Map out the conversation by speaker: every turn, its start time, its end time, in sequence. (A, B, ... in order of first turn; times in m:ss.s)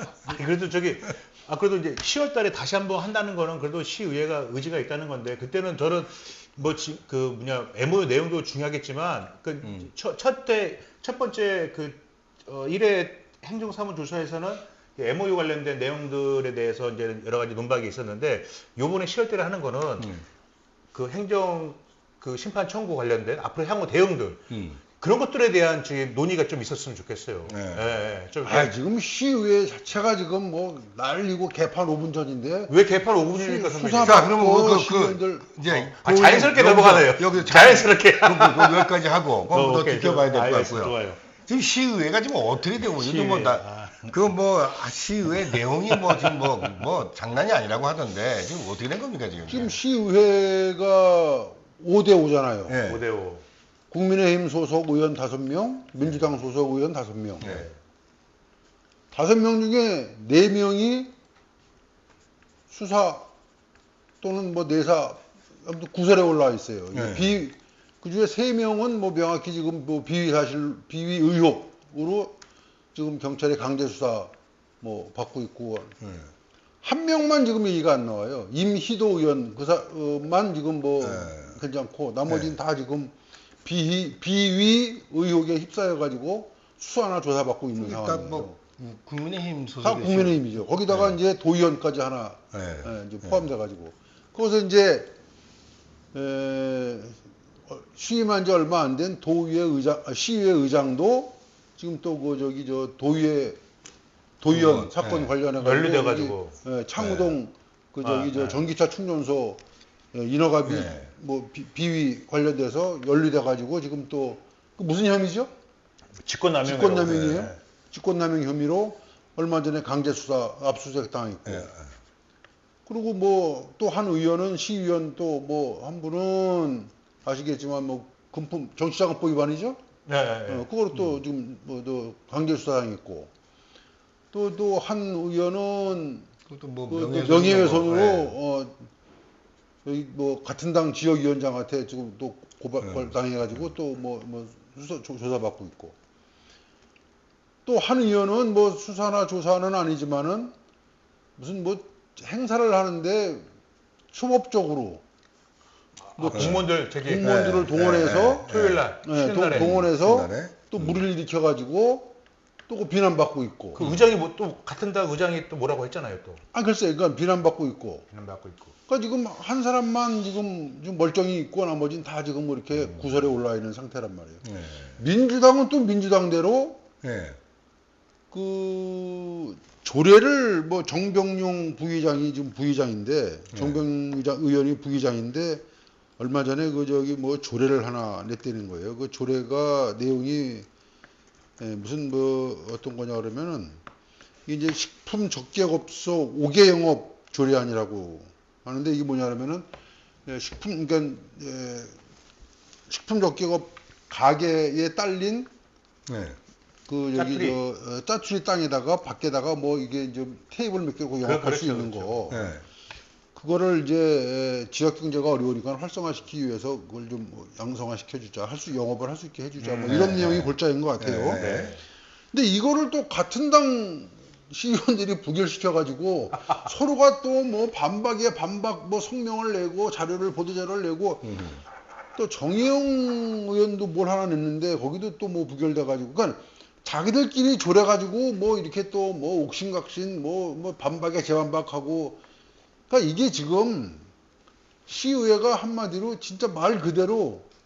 0:00.2-0:20.2 A
0:20.0-0:20.2 B
0:20.9-0:28.7 A
0:24.5-0:24.8 B
0:27.4-0:27.9 B
0:28.4-0:32.7 C
0:32.7-0:34.3 A
0:33.3-0:35.5 C
0:34.0-0:49.7 B
0:35.6-0:41.3 A
0:42.8-0:44.4 A
0:45.3-0:46.9 A
0:49.5-0:52.8 C
0:52.7-0:53.0 B
0:52.8-0:53.4 A
0:53.9-0:57.5 C
0:57.4-0:57.7 B
0:57.4-0:57.8 A
0:59.1-1:01.1 C
1:02.7-1:03.3 C
1:04.2-1:12.4 C
1:06.9-1:07.4 B
1:12.9-1:16.0 C
1:16.0-1:16.3 B
1:16.8-1:28.6 C
1:21.0-1:21.6 B
1:22.3-1:22.5 B
1:27.8-1:31.2 B
1:29.8-1:35.1 C
1:32.5-1:33.5 B
1:36.1-1:43.6 C
1:44.4-1:49.6 C
1:44.5-1:45.4 B
1:45.5-1:46.6 A
1:47.0-1:47.4 B
1:48.0-1:48.7 A
1:50.1-1:55.5 C
1:50.6-1:51.1 B
1:56.2-1:57.6 A
1:56.6-2:01.7 C
2:01.4-2:01.9 B
2:02.8-2:09.8 C
2:10.0-2:10.7 A
2:10.5-2:13.3 C
2:10.9-2:11.2 B
2:14.3-2:16.3 C
2:16.4-2:18.3 B
2:16.9-2:18.9 C
2:19.8-2:25.9 C
2:22.8-2:23.7 B
2:27.6-2:30.5 C
2:31.4-2:33.4 C
2:34.1-2:35.0 C
2:36.1-2:37.6 A
2:36.2-2:42.2 C
2:36.3-2:36.7 B
2:37.2-2:38.9 B
2:38.3-2:39.9 A
2:39.5-2:41.1 B
2:42.7-2:43.9 C
2:43.7-2:46.4 A
2:46.5-2:48.0 C
2:48.1-2:48.8 A
2:48.9-2:54.4 C
2:52.7-2:53.3 A
2:54.4-2:55.0 B
2:55.0-2:56.8 C
2:57.0-2:57.4 B
2:58.3-3:05.6 C
3:03.5-3:03.8 B
3:06.2-3:10.7 C
3:11.6-3:13.8 C
3:14.4-3:19.7 C
3:20.2-3:22.0 C
3:22.9-3:25.5 C
3:26.1-3:26.4 B
3:26.9-3:32.4 C
3:27.1-3:27.6 A
3:31.2-3:32.5 A
3:32.3-3:32.6 B
3:33.3-3:41.5 C
3:39.6-3:40.2 A
3:39.9-3:41.8 B
3:41.3-3:41.8 A
3:42.3-3:51.3 C
3:51.2-3:51.6 B
3:52.2-4:02.2 C
4:02.9-4:04.1 C
4:04.9-4:07.5 C